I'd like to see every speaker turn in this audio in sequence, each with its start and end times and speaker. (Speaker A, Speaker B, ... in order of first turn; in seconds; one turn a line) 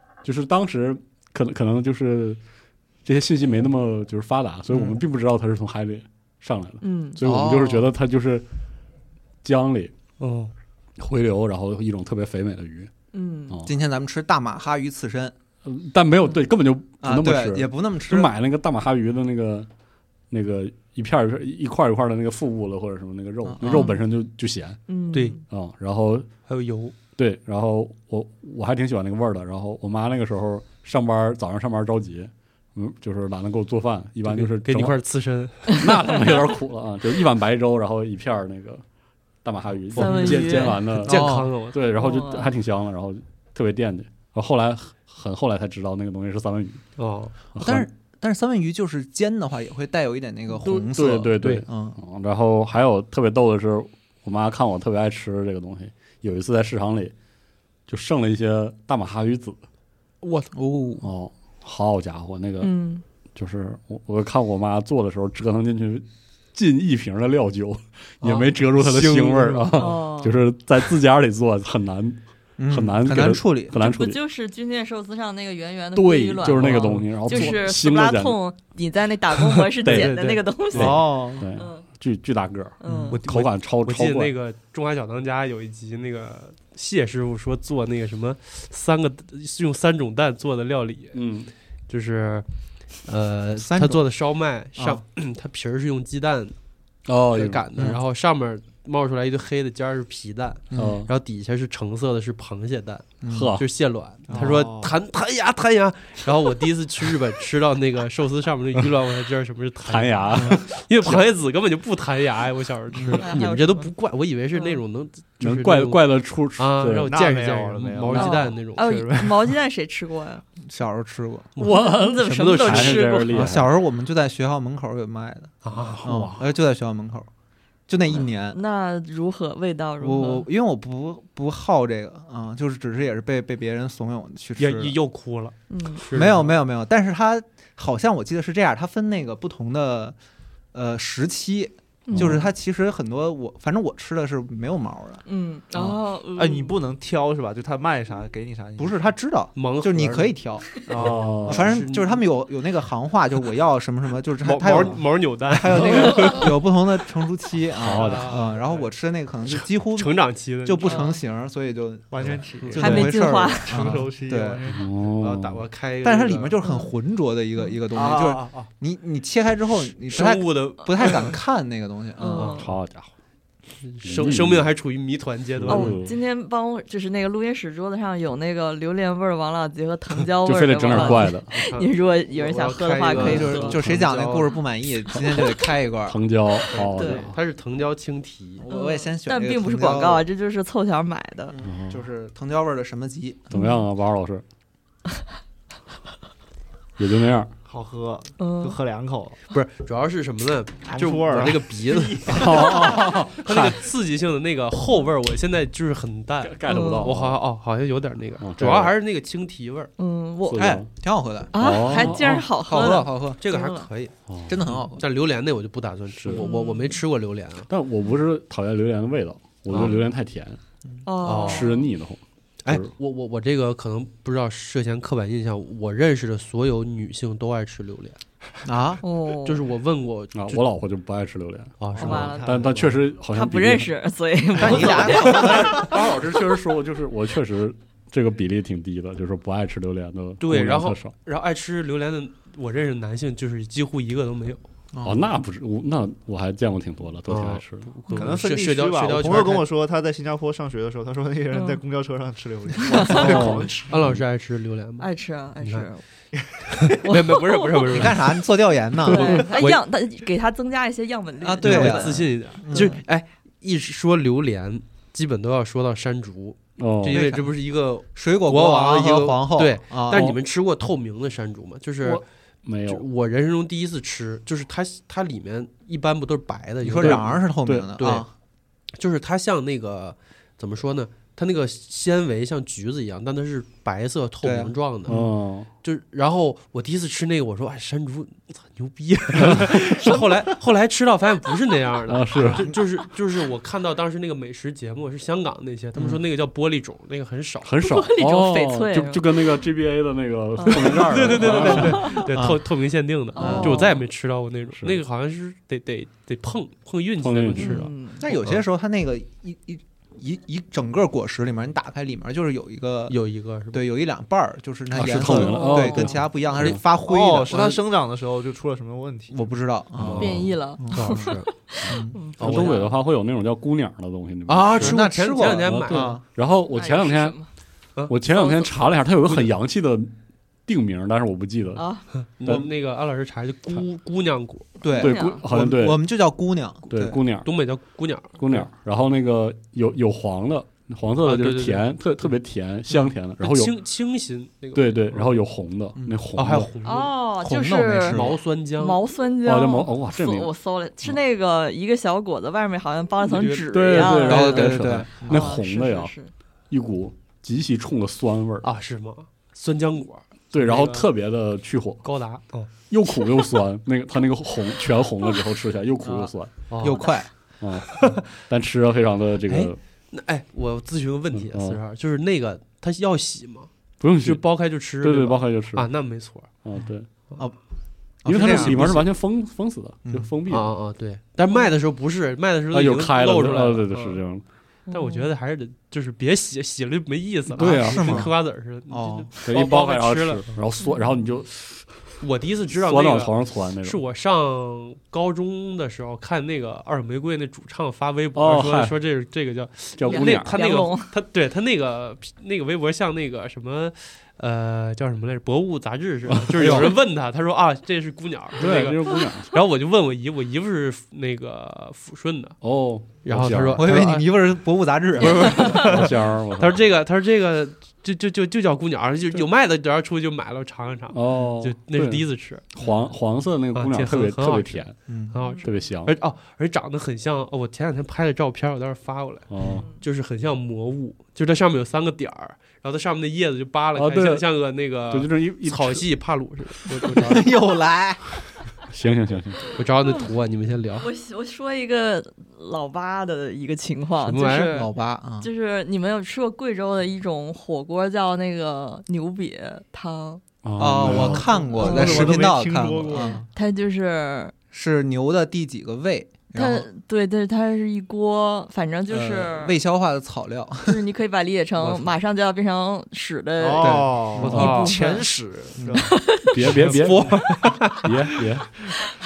Speaker A: 0.2-2.4
Speaker A: 3.0-8.4
Speaker B: 4.7-5.0
Speaker C: 6.8-7.2
Speaker B: 7.2-7.9
Speaker A: 9.4-9.9
Speaker D: 10.2-10.5
Speaker A: 11.0-12.9
Speaker C: 13.1-13.6
Speaker B: 13.6-15.3
Speaker A: 15.6-19.7
Speaker B: 17.0-18.3
Speaker A: 20.3-24.8
Speaker B: 23.4-23.9
Speaker C: 23.7-23.9
Speaker C: 24.9-25.4
Speaker D: 25.1-25.4
Speaker A: 25.5-26.3
Speaker D: 26.5-26.9
Speaker A: 27.2-35.0
Speaker D: 34.2-35.9
Speaker A: 35.7-38.8
Speaker C: 35.7-36.0
Speaker A: 39.4-46.8
Speaker D: 39.9-41.8
Speaker C: 40.0-40.9
Speaker B: 41.1-41.5
Speaker C: 41.9-42.5
Speaker D: 47.0-47.3
Speaker A: 47.5-47.9
Speaker B: 47.6-52.0
Speaker A: 50.6-57.1
Speaker A: 57.9-59.6
Speaker D: 60.2-60.5
Speaker B: 60.5-61.1
Speaker A: 61.0-62.7
Speaker C: 62.6-63.0
Speaker A: 63.3-74.2
Speaker D: 68.2-70.0
Speaker C: 69.8-70.4
Speaker B: 72.6-73.8
Speaker C: 73.7-81.8
Speaker A: 75.9-78.4
Speaker D: 76.5-77.6
Speaker D: 79.7-80.4
Speaker A: 79.8-80.2
Speaker E: 80.7-81.5
Speaker A: 80.7-84.3
Speaker C: 82.8-83.2
Speaker B: 82.8-83.2
Speaker D: 83.1-91.2
Speaker A: 91.1-91.5
Speaker D: 91.9-96.5
Speaker B: 93.6-94.0
Speaker A: 97.0-97.7
Speaker D: 97.2-119.1
Speaker B: 100.7-101.0
Speaker A: 100.7-101.1
Speaker B: 103.2-103.5
Speaker A: 103.3-103.6
Speaker B: 104.3-104.6
Speaker E: 104.3-104.9
Speaker A: 109.8-111.2
Speaker B: 113.0-113.3
Speaker C: 113.1-113.9
Speaker C: 114.5-114.8
Speaker A: 115.4-117.1
Speaker E: 117.0-119.5
Speaker C: 118.1-120.4
Speaker B: 120.7-121.5
Speaker A: 121.6-123.7
Speaker C: 121.6-123.4
Speaker D: 122.2-123.1
Speaker B: 123.3-127.3
Speaker D: 125.6-126.5
Speaker B: 127.9-128.6
Speaker C: 128.1-130.5
Speaker B: 130.0-134.9
Speaker D: 134.6-136.6
Speaker C: 135.7-136.0
Speaker B: 136.1-140.2
Speaker B: 140.7-145.2
Speaker C: 142.1-142.4
Speaker A: 142.1-142.5
Speaker C: 145.2-146.8
Speaker E: 146.3-149.1
Speaker B: 148.8-164.6
Speaker D: 149.5-150.3
Speaker D: 150.8-152.2
Speaker E: 150.9-151.5
Speaker A: 151.0-151.7
Speaker D: 154.4-156.5
Speaker E: 154.7-155.0
Speaker A: 157.8-158.3
Speaker D: 157.9-158.5
Speaker E: 158.0-158.8
Speaker D: 159.5-161.1
Speaker C: 160.8-161.2
Speaker E: 162.1-164.9
Speaker D: 162.6-163.1
Speaker C: 162.8-163.8
Speaker A: 164.7-165.7
Speaker D: 165.1-166.6
Speaker B: 166.0-172.6
Speaker C: 166.6-166.9
Speaker E: 167.9-168.7
Speaker D: 170.1-171.4
Speaker C: 172.2-172.8
Speaker D: 172.3-172.6
Speaker A: 172.6-173.1
Speaker D: 173.8-176.0
Speaker A: 174.0-174.7
Speaker A: 175.6-176.1
Speaker C: 175.7-183.8
Speaker A: 180.4-181.5
Speaker D: 180.9-184.6
Speaker E: 182.6-183.4
Speaker B: 183.1-186.2
Speaker A: 185.1-185.4
Speaker A: 186.1-187.4
Speaker D: 186.7-188.6
Speaker C: 186.9-187.3
Speaker B: 188.6-190.2
Speaker C: 188.7-191.5
Speaker B: 191.5-193.5
Speaker A: 191.6-192.0
Speaker A: 193.5-194.4
Speaker C: 193.5-193.8
Speaker A: 197.0-197.5
Speaker E: 197.7-199.4
Speaker C: 198.4-198.8
Speaker D: 199.5-209.9
Speaker E: 200.8-202.9
Speaker A: 202.3-203.8
Speaker A: 206.4-207.4
Speaker C: 206.7-207.1
Speaker A: 208.4-208.9
Speaker C: 210.0-210.8
Speaker A: 210.4-210.9
Speaker B: 210.6-213.4
Speaker C: 211.5-213.9
Speaker A: 211.5-212.5
Speaker D: 212.8-217.7
Speaker A: 214.3-214.6
Speaker B: 214.5-215.0
Speaker A: 216.1-216.4
Speaker C: 216.3-217.0
Speaker A: 217.7-220.6
Speaker D: 219.7-220.0
Speaker C: 221.0-221.9
Speaker D: 221.2-221.7
Speaker A: 221.3-222.9
Speaker D: 222.6-228.2
Speaker B: 228.6-229.0
Speaker C: 229.0-229.6
Speaker D: 229.4-230.6
Speaker A: 230.3-233.9
Speaker D: 231.8-232.5
Speaker E: 231.9-233.0
Speaker C: 231.9-235.8
Speaker B: 234.6-236.0
Speaker A: 234.6-241.1
Speaker D: 240.4-244.6
Speaker B: 244.9-245.3
Speaker A: 245.0-248.0
Speaker D: 247.3-249.7
Speaker E: 248.1-253.9
Speaker C: 251.5-251.8
Speaker C: 252.8-253.2
Speaker A: 253.1-254.2
Speaker D: 253.1-255.1
Speaker C: 255.0-256.0
Speaker D: 255.6-255.9
Speaker E: 256.3-257.0
Speaker D: 256.8-258.4
Speaker C: 257.0-258.1
Speaker B: 257.9-259.5
Speaker D: 259.0-259.8
Speaker C: 259.1-263.0
Speaker B: 261.4-262.9
Speaker D: 261.6-272.2
Speaker A: 266.8-267.2
Speaker B: 267.1-270.3
Speaker A: 270.1-270.4
Speaker A: 272.0-273.0
Speaker D: 272.8-278.3
Speaker B: 276.8-278.3
Speaker A: 276.9-277.9
Speaker D: 279.0-297.7
Speaker B: 284.4-285.3
Speaker A: 285.1-285.7
Speaker A: 289.4-289.8
Speaker A: 292.1-292.7
Speaker B: 292.4-292.8
Speaker A: 297.6-302.2
Speaker C: 297.8-299.4
Speaker C: 300.6-302.2
Speaker D: 300.7-307.9
Speaker B: 301.4-302.6
Speaker C: 303.3-304.0
Speaker B: 303.4-303.8
Speaker A: 303.5-303.8
Speaker A: 307.2-308.6
Speaker C: 307.6-308.2
Speaker B: 308.2-313.2
Speaker D: 313.1-313.8
Speaker B: 313.7-317.8
Speaker A: 314.9-316.8
Speaker C: 315.2-316.1
Speaker E: 316.9-319.5
Speaker B: 319.3-321.3
Speaker A: 320.0-320.5
Speaker D: 320.0-321.5
Speaker C: 320.2-322.9
Speaker B: 321.9-322.2
Speaker D: 322.4-322.8
Speaker A: 322.4-327.4
Speaker D: 324.5-326.2
Speaker B: 324.7-326.2
Speaker C: 326.7-327.5
Speaker A: 328.1-330.1
Speaker C: 328.3-328.7
Speaker A: 330.6-331.9
Speaker C: 331.8-332.0
Speaker D: 332.3-334.7
Speaker B: 334.8-337.2
Speaker A: 334.9-336.0
Speaker C: 334.9-335.4
Speaker A: 336.9-337.5
Speaker D: 337.4-338.7
Speaker A: 338.4-343.7
Speaker D: 341.2-341.8
Speaker D: 343.4-345.3
Speaker A: 344.7-346.7
Speaker D: 346.3-347.1
Speaker C: 346.8-356.3
Speaker B: 347.4-348.4
Speaker D: 348.0-349.0
Speaker A: 349.4-350.5
Speaker D: 353.2-354.3
Speaker A: 353.7-356.1
Speaker B: 354.2-355.5
Speaker A: 356.7-358.7
Speaker D: 358.6-361.1
Speaker A: 360.5-362.1
Speaker D: 362.0-362.7
Speaker A: 362.9-366.6
Speaker D: 366.0-367.1
Speaker B: 366.8-367.3
Speaker A: 367.6-369.8
Speaker D: 367.9-368.2
Speaker D: 369.5-376.5
Speaker A: 371.3-371.8
Speaker A: 374.0-375.9
Speaker A: 376.6-377.1
Speaker B: 378.2-379.1
Speaker A: 378.2-380.7
Speaker B: 380.1-380.3
Speaker D: 380.5-384.2
Speaker A: 382.7-384.4
Speaker C: 384.9-385.3
Speaker D: 384.9-390.6
Speaker A: 387.5-388.3
Speaker B: 387.6-388.3
Speaker B: 388.9-389.3
Speaker A: 389.4-392.2
Speaker C: 390.8-391.1
Speaker D: 392.2-412.6
Speaker A: 392.8-394.0
Speaker A: 398.3-399.0
Speaker A: 399.9-400.6
Speaker C: 400.1-401.1
Speaker A: 406.3-406.9
Speaker B: 406.6-406.9
Speaker A: 408.6-409.5
Speaker A: 412.6-413.9
Speaker D: 413.2-414.3
Speaker B: 413.8-416.0
Speaker D: 415.1-422.6
Speaker C: 415.4-415.7
Speaker A: 415.6-416.8
Speaker A: 421.1-424.9
Speaker D: 423.7-437.6
Speaker B: 425.1-425.4
Speaker C: 425.4-425.7
Speaker A: 425.6-426.1
Speaker A: 429.5-429.9
Speaker C: 429.7-430.0
Speaker A: 433.9-434.5
Speaker A: 435.1-436.0
Speaker B: 437.2-438.2
Speaker A: 438.9-439.8
Speaker D: 439.7-441.1
Speaker C: 441.0-450.4
Speaker D: 444.2-444.9
Speaker B: 444.7-445.5
Speaker A: 450.6-451.5
Speaker B: 450.8-453.4
Speaker E: 451.0-453.5
Speaker C: 451.8-452.4
Speaker C: 453.1-454.5
Speaker B: 454.7-456.9
Speaker C: 456.5-459.8
Speaker B: 459.1-461.0
Speaker C: 460.8-465.3
Speaker E: 463.6-466.1
Speaker B: 463.8-464.5
Speaker D: 464.4-465.0
Speaker A: 464.4-464.8
Speaker B: 465.8-466.1
Speaker C: 465.9-466.5
Speaker A: 466.4-467.4
Speaker D: 466.6-468.4
Speaker A: 468.0-468.8